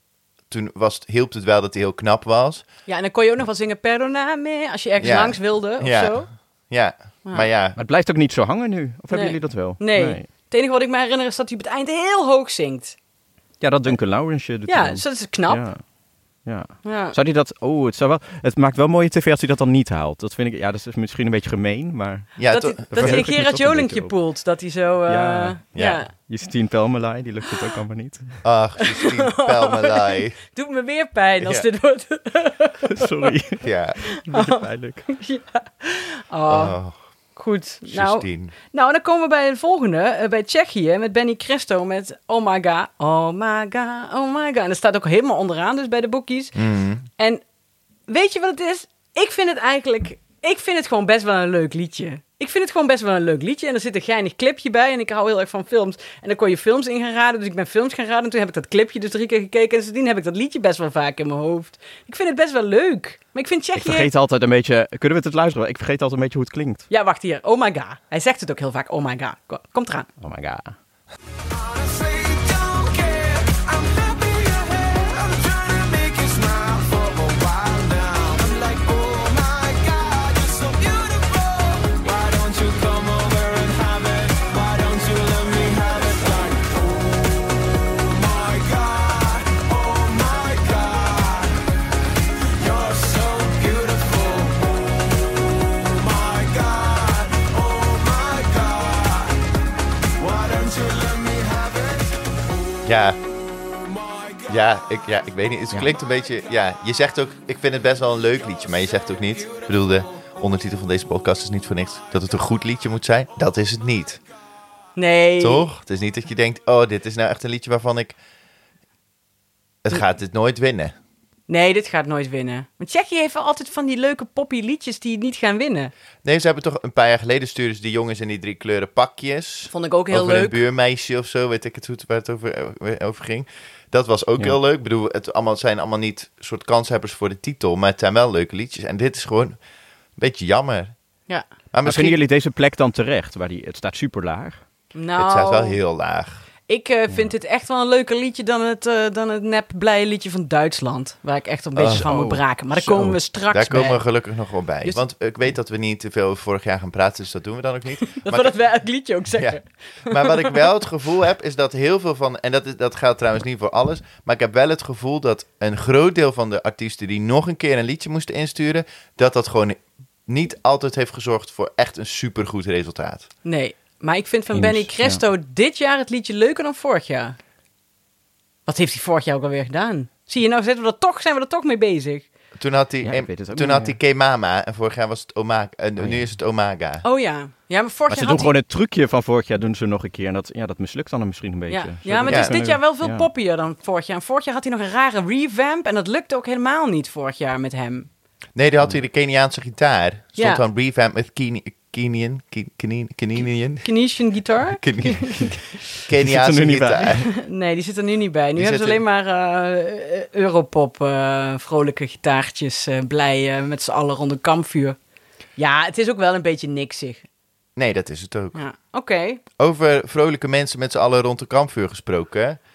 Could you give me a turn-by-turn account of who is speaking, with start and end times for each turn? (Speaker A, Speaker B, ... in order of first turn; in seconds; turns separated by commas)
Speaker A: 0.5-2.6, Speaker B: 2.9-6.3, Speaker A: 5.0-7.8, Speaker C: 7.8-10.3, Speaker B: 9.1-13.0, Speaker C: 13.6-15.8, Speaker B: 14.7-15.7, Speaker C: 16.4-22.4, Speaker B: 16.8-17.2, Speaker A: 22.4-23.3, Speaker B: 22.5-26.1, Speaker C: 22.9-24.1, Speaker C: 25.1-25.6, Speaker A: 25.8-26.0, Speaker C: 26.2-28.4, Speaker A: 28.4-30.4, Speaker B: 28.8-33.4, Speaker A: 31.4-31.7, Speaker C: 32.9-33.7, Speaker A: 33.6-34.0, Speaker B: 34.0-36.8, Speaker C: 34.2-35.1, Speaker A: 36.5-37.0, Speaker B: 37.4-46.6, Speaker A: 37.9-38.5, Speaker A: 46.5-47.1, Speaker B: 48.1-64.1, Speaker C: 63.8-66.9, Speaker B: 66.9-70.1, Speaker C: 70.2-70.8, Speaker D: 71.5-91.6, Speaker D: 92.6-99.4, Speaker D: 100.2-102.8, Speaker A: 102.8-103.2, Speaker D: 103.9-104.5, Speaker A: 104.5-114.2, Speaker B: 115.0-115.7, Speaker A: 115.4-118.2, Speaker A: 119.8-120.9, Speaker B: 121.5-125.9, Speaker A: 126.2-139.6, Speaker B: 129.7-130.6, Speaker A: 140.2-140.9, Speaker A: 141.7-142.2, Speaker C: 141.8-144.6, Speaker B: 144.9-145.8, Speaker A: 145.2-146.4, Speaker B: 146.7-154.0, Speaker A: 151.8-152.1, Speaker C: 151.9-153.2, Speaker A: 153.5-158.6, Speaker B: 158.1-160.6, Speaker A: 159.4-173.3, Speaker B: 173.4-177.4, Speaker C: 174.5-175.2, Speaker B: 178.7-182.3, Speaker A: 182.6-187.0, Speaker C: 183.0-184.0, Speaker C: 186.0-186.3, Speaker B: 187.0-188.5, Speaker C: 188.1-193.3, Speaker B: 191.7-198.1, Speaker A: 192.3-192.6, Speaker A: 198.6-203.9, Speaker B: 200.4-200.7, Speaker B: 203.8-205.7, Speaker A: 204.7-205.5, Speaker A: 206.1-207.2, Speaker C: 206.2-207.3, Speaker B: 207.2-215.0, Speaker A: 208.6-209.0, Speaker B: 215.6-217.2, Speaker A: 217.8-218.6, Speaker B: 218.6-219.4, Speaker A: 219.6-222.6